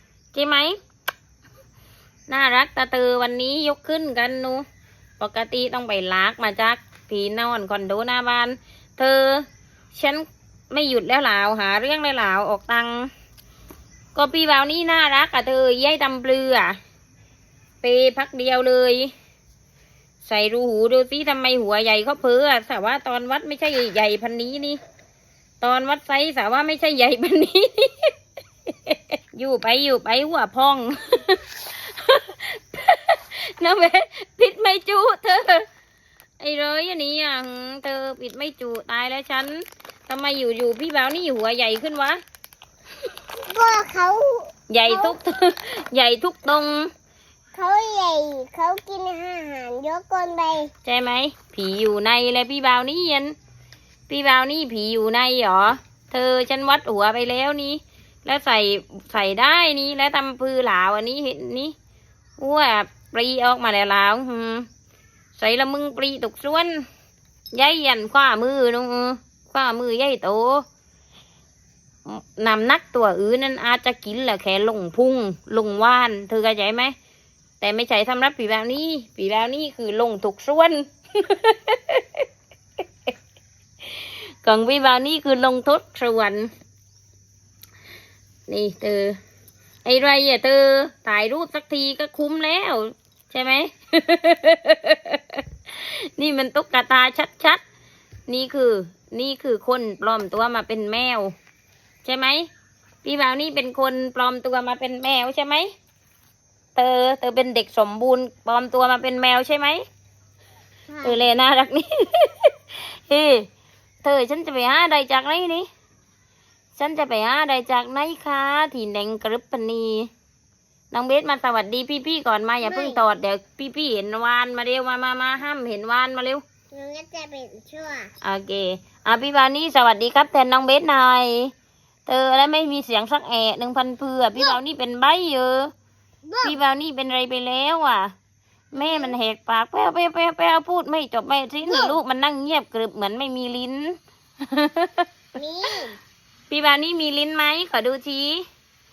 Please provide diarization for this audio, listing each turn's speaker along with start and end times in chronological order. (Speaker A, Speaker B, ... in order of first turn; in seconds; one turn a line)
Speaker A: 0.3-0.7
Speaker A: 2.3-4.6
Speaker A: 5.2-13.1
Speaker A: 14.1-16.8
Speaker A: 17.8-19.1
Speaker A: 20.2-24.8
Speaker A: 25.6-28.1
Speaker A: 28.7-35.6
Speaker A: 36.4-42.2
Speaker B: 43.5-45.1
Speaker A: 44.7-46.9
Speaker B: 47.5-50.7
Speaker A: 50.8-53.3
Speaker A: 54.1-61.7
Speaker A: 62.4-64.7
Speaker A: 65.4-66.8
Speaker A: 67.5-70.6
Speaker A: 72.0-76.9
Speaker A: 77.6-82.2
Speaker A: 84.4-86.5
Speaker A: 88.5-89.2
Speaker A: 89.8-97.6
Speaker A: 98.3-101.3
Speaker A: 102.0-102.5
Speaker A: 103.0-105.7
Speaker A: 106.7-109.8
Speaker B: 110.9-111.3
Speaker A: 111.0-113.5
Speaker A: 114.0-115.7
Speaker A: 116.8-120.1
Speaker A: 120.9-126.4
Speaker B: 122.6-123.0
Speaker B: 126.7-128.1
Speaker A: 128.2-131.5
Speaker A: 132.1-135.7
Speaker B: 136.2-136.6
Speaker A: 136.4-138.1
Speaker A: 138.7-145.1
Speaker B: 138.7-139.2
Speaker B: 141.7-142.0
Speaker B: 145.3-145.9
Speaker A: 146.5-148.4